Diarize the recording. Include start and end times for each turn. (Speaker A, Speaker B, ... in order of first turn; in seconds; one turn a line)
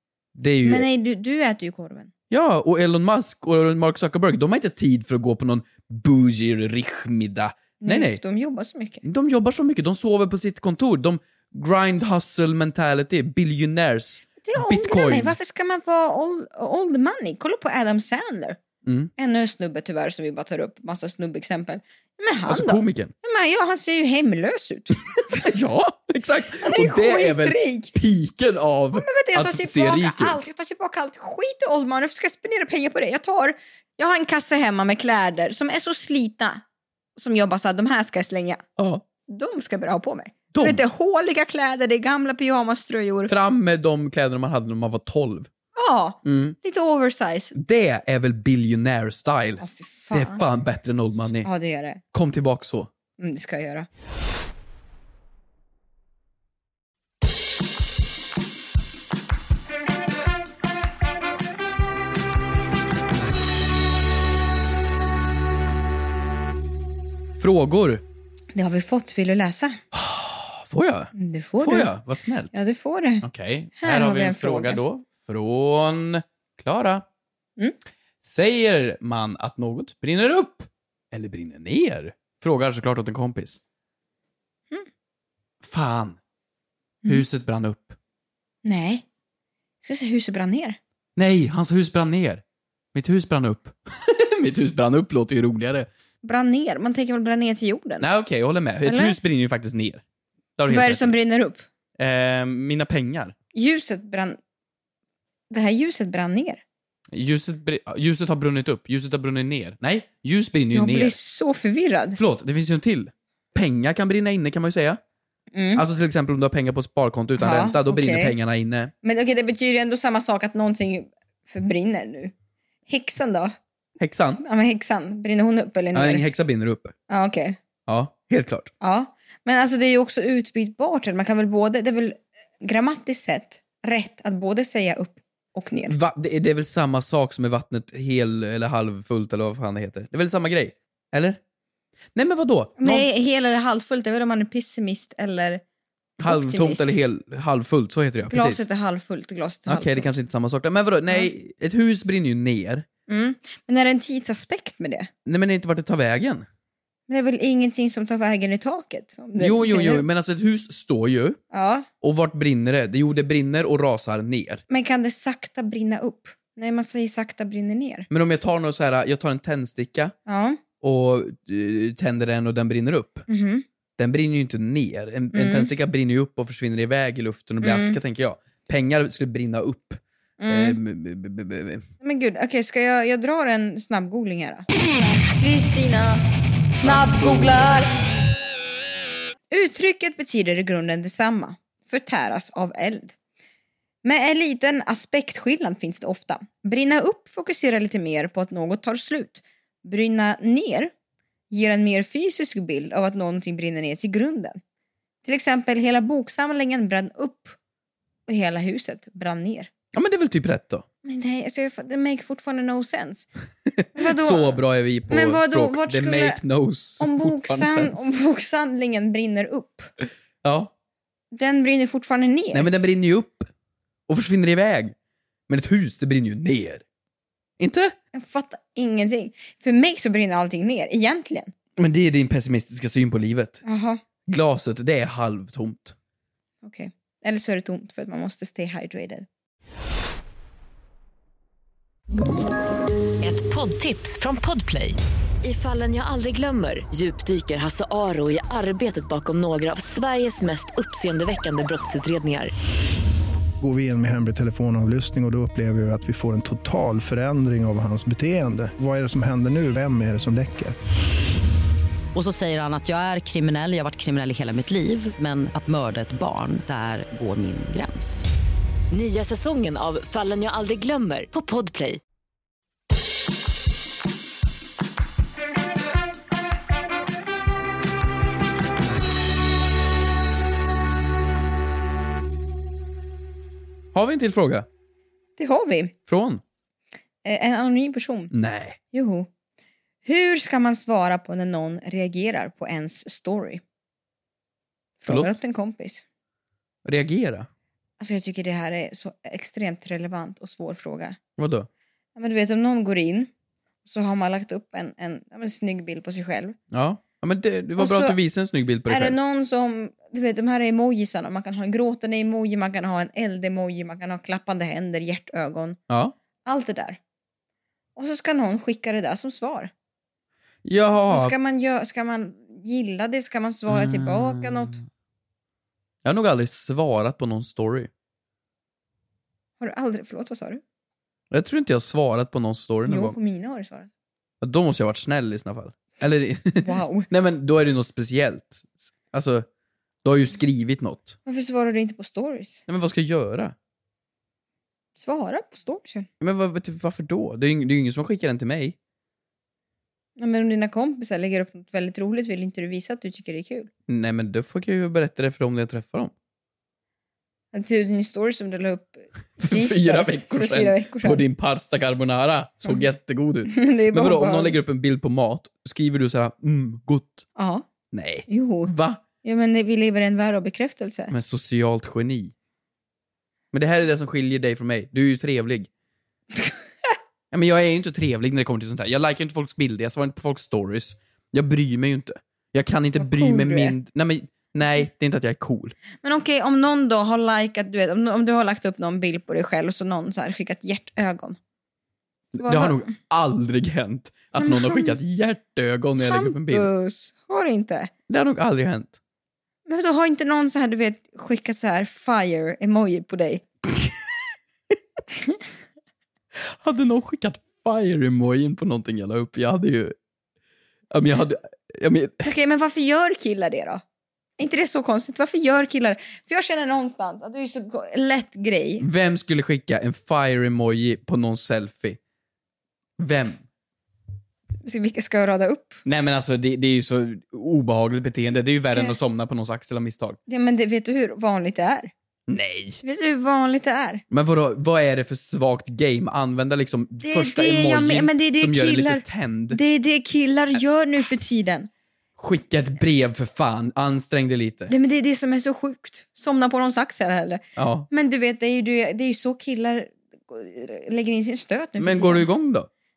Speaker A: 0.3-0.9
Speaker B: 0.6-2.1
Speaker A: 2.3-8.2
Speaker B: 7.8-9.0
Speaker A: 9.0-15.3
Speaker B: 14.4-18.6
Speaker A: 18.8-19.1
Speaker B: 19.2-25.5
Speaker A: 22.4-23.1
Speaker A: 25.4-30.4
Speaker B: 26.6-27.9
Speaker B: 28.9-36.6
Speaker B: 37.1-38.6
Speaker A: 38.8-39.0
Speaker B: 39.3-43.3
Speaker A: 40.5-40.8
Speaker A: 43.3-45.5
Speaker B: 45.8-47.5
Speaker A: 46.2-46.6
Speaker A: 47.5-51.5
Speaker B: 49.6-50.4
Speaker B: 51.4-52.0
Speaker A: 52.1-52.9
Speaker B: 53.2-53.9
Speaker A: 67.4-68.0
Speaker B: 68.5-69.8
Speaker A: 69.9-72.5
Speaker B: 71.1-71.9
Speaker B: 72.5-73.3
Speaker A: 73.2-77.0
Speaker B: 73.8-74.8
Speaker A: 78.2-83.6
Speaker A: 85.6-86.2
Speaker A: 87.1-88.0
Speaker B: 88.6-89.0
Speaker B: 89.8-90.8
Speaker A: 91.2-92.4
Speaker A: 92.9-95.9
Speaker B: 96.2-98.1
Speaker A: 98.0-100.0
Speaker B: 98.8-99.2
Speaker A: 100.6-101.1
Speaker B: 100.7-101.7
Speaker A: 102.0-103.3
Speaker B: 103.5-104.4
Speaker B: 105.5-106.6
Speaker A: 107.1-111.2
Speaker B: 110.7-112.2
Speaker A: 112.2-115.0
Speaker B: 115.5-115.8
Speaker A: 115.7-118.9
Speaker B: 117.4-118.3
Speaker B: 119.0-122.3
Speaker B: 122.9-123.5
Speaker A: 124.0-124.4
Speaker B: 124.4-126.2
Speaker A: 125.9-126.9
Speaker B: 127.1-127.6
Speaker A: 127.9-128.7
Speaker B: 128.8-135.9
Speaker A: 135.9-141.4
Speaker A: 142.1-143.1
Speaker B: 142.8-145.6
Speaker A: 146.2-148.6
Speaker B: 146.2-146.9
Speaker B: 148.3-150.1
Speaker A: 149.7-152.8
Speaker B: 153.1-155.1
Speaker A: 155.2-156.4
Speaker B: 157.1-160.0
Speaker A: 159.4-161.4
Speaker B: 161.5-161.9
Speaker A: 162.0-164.6
Speaker B: 164.7-168.1
Speaker A: 168.1-170.2
Speaker B: 170.3-170.6
Speaker A: 170.8-173.2
Speaker B: 173.3-173.6
Speaker A: 174.0-181.8
Speaker B: 175.3-175.7
Speaker B: 177.6-178.0
Speaker B: 180.4-180.8
Speaker B: 182.0-184.6
Speaker B: 185.4-187.9
Speaker A: 186.8-187.7
Speaker B: 189.5-193.1
Speaker B: 194.0-200.9
Speaker B: 201.5-204.6
Speaker B: 205.2-207.6
Speaker B: 208.3-209.7
Speaker A: 209.9-210.8
Speaker B: 211.0-213.3
Speaker A: 213.8-218.1
Speaker B: 213.9-216.4
Speaker B: 217.0-219.9
Speaker A: 220.4-220.7
Speaker B: 221.3-222.7
Speaker A: 222.5-223.5
Speaker A: 224.1-224.9
Speaker A: 225.5-226.8
Speaker A: 227.6-227.9
Speaker B: 228.1-231.5
Speaker A: 231.8-233.6
Speaker B: 233.6-234.0
Speaker A: 234.2-235.9
Speaker B: 236.6-239.2
Speaker C: 243.2-252.5
Speaker D: 253.6-260.8
Speaker E: 262.1-268.3
Speaker C: 268.9-272.0
Speaker A: 283.9-284.7
Speaker B: 285.4-285.9
Speaker A: 286.1-286.4
Speaker B: 287.2-288.3
Speaker A: 288.3-288.8
Speaker B: 288.9-289.3
Speaker B: 290.0-293.6
Speaker B: 295.0-296.0
Speaker A: 295.1-295.3
Speaker A: 296.8-297.5
Speaker B: 298.0-301.2
Speaker A: 301.4-301.7
Speaker B: 302.1-303.3
Speaker B: 303.8-306.6
Speaker A: 306.7-309.1
Speaker B: 307.8-308.2
Speaker B: 308.9-315.8
Speaker A: 315.9-316.1
Speaker B: 316.4-317.0
Speaker B: 317.9-319.7
Speaker A: 320.6-321.4
Speaker B: 321.1-324.8
Speaker A: 323.7-324.8
Speaker A: 326.0-327.9
Speaker B: 329.6-330.6
Speaker A: 331.3-333.1
Speaker B: 332.9-333.9
Speaker A: 334.4-339.4
Speaker B: 336.6-337.1
Speaker A: 340.0-341.2
Speaker B: 341.2-342.6
Speaker A: 342.7-343.5
Speaker B: 344.9-346.1
Speaker A: 346.2-348.8
Speaker B: 350.2-353.7
Speaker A: 353.9-356.1
Speaker B: 357.5-361.2
Speaker A: 359.4-367.2
Speaker B: 363.5-364.6
Speaker B: 367.4-367.6
Speaker A: 367.9-369.0
Speaker B: 368.3-368.7
Speaker B: 369.2-371.1
Speaker A: 371.1-372.3
Speaker A: 373.5-375.7
Speaker A: 377.3-385.8
Speaker B: 383.0-383.8
Speaker B: 386.0-391.4
Speaker A: 392.3-396.7
Speaker B: 392.4-392.9
Speaker B: 394.4-395.0
Speaker B: 396.0-397.9
Speaker A: 398.1-399.0
Speaker B: 399.7-403.4
Speaker A: 406.4-409.9
Speaker A: 410.9-412.3
Speaker B: 412.2-413.8
Speaker B: 414.4-418.9
Speaker A: 418.8-422.0
Speaker A: 423.0-423.4
Speaker B: 424.6-425.8
Speaker A: 425.8-430.2
Speaker B: 430.3-431.9
Speaker A: 432.3-432.8
Speaker B: 432.8-434.0
Speaker A: 434.1-439.6
Speaker B: 437.0-441.7
Speaker A: 442.2-444.7
Speaker B: 444.7-452.3
Speaker A: 447.6-447.9
Speaker A: 451.8-452.7